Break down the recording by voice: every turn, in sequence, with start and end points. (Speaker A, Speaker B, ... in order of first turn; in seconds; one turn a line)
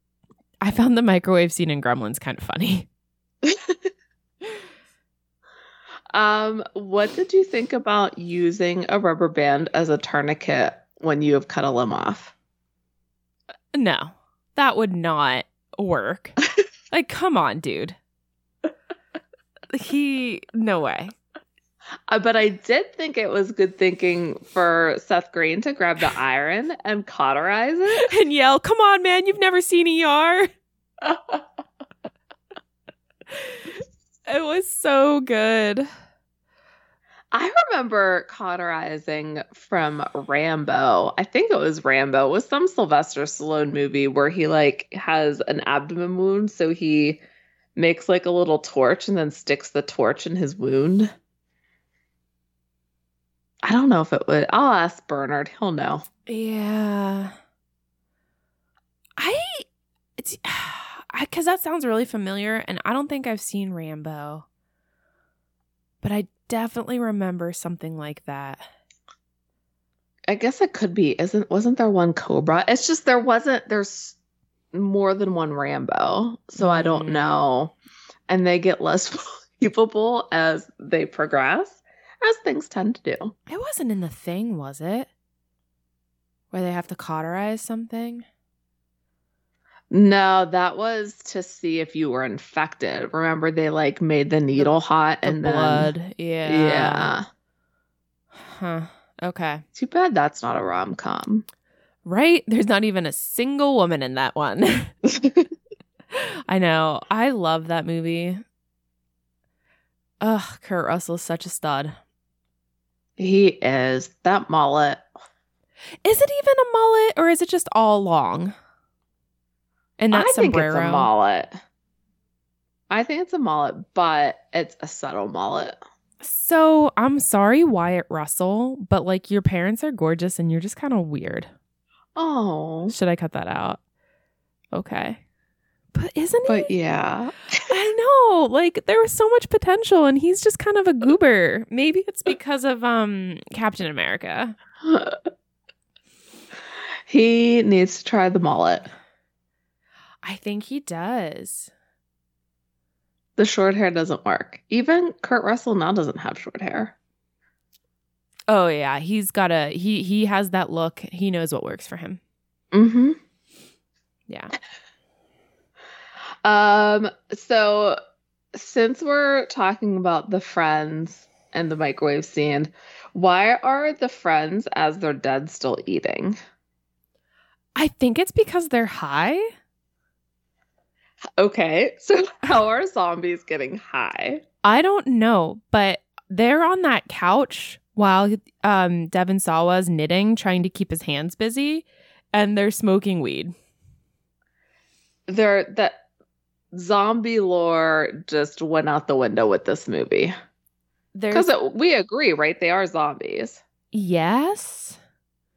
Speaker A: 0.6-2.9
Speaker B: 3.4-3.8
Speaker B: 6.1-12.3
Speaker A: 13.7-16.4
Speaker A: 16.9-18.0
Speaker A: 19.7-21.1
Speaker B: 22.1-28.1
Speaker A: 28.0-30.5
Speaker A: 33.3-35.9
Speaker B: 37.3-47.2
Speaker B: 47.8-51.1
Speaker B: 53.6-56.0
Speaker A: 56.3-57.3
Speaker A: 59.2-59.6
Speaker A: 60.2-64.5
Speaker A: 66.0-68.7
Speaker B: 70.3-74.2
Speaker B: 74.7-77.7
Speaker A: 76.6-77.3
Speaker B: 78.3-83.3
Speaker A: 83.5-85.1
Speaker A: 86.5-88.2
Speaker B: 89.9-95.9
Speaker A: 95.2-97.1
Speaker B: 96.5-97.2
Speaker A: 98.3-99.6
Speaker B: 99.7-101.4
Speaker A: 102.0-104.9
Speaker B: 105.2-105.4
Speaker A: 106.1-108.4
Speaker A: 110.2-111.9
Speaker B: 113.2-115.0
Speaker A: 116.0-118.5
Speaker A: 120.0-121.1
Speaker B: 120.1-121.5
Speaker B: 122.9-125.8
Speaker A: 126.2-131.5
Speaker B: 132.2-132.9
Speaker A: 132.9-133.8
Speaker A: 134.7-135.2
Speaker A: 135.9-136.7
Speaker B: 136.4-137.7
Speaker A: 137.7-144.5
Speaker B: 144.8-145.2
Speaker B: 147.1-148.9
Speaker A: 150.2-151.7
Speaker B: 153.4-156.9
Speaker A: 158.5-162.2
Speaker B: 162.7-163.2
Speaker B: 166.4-168.0
Speaker B: 168.5-176.4
Speaker A: 177.8-179.5
Speaker B: 181.4-184.4
Speaker A: 184.6-193.5
Speaker B: 195.3-195.9
Speaker B: 196.7-200.3
Speaker A: 201.1-201.5
Speaker B: 201.3-203.6
Speaker A: 203.9-205.0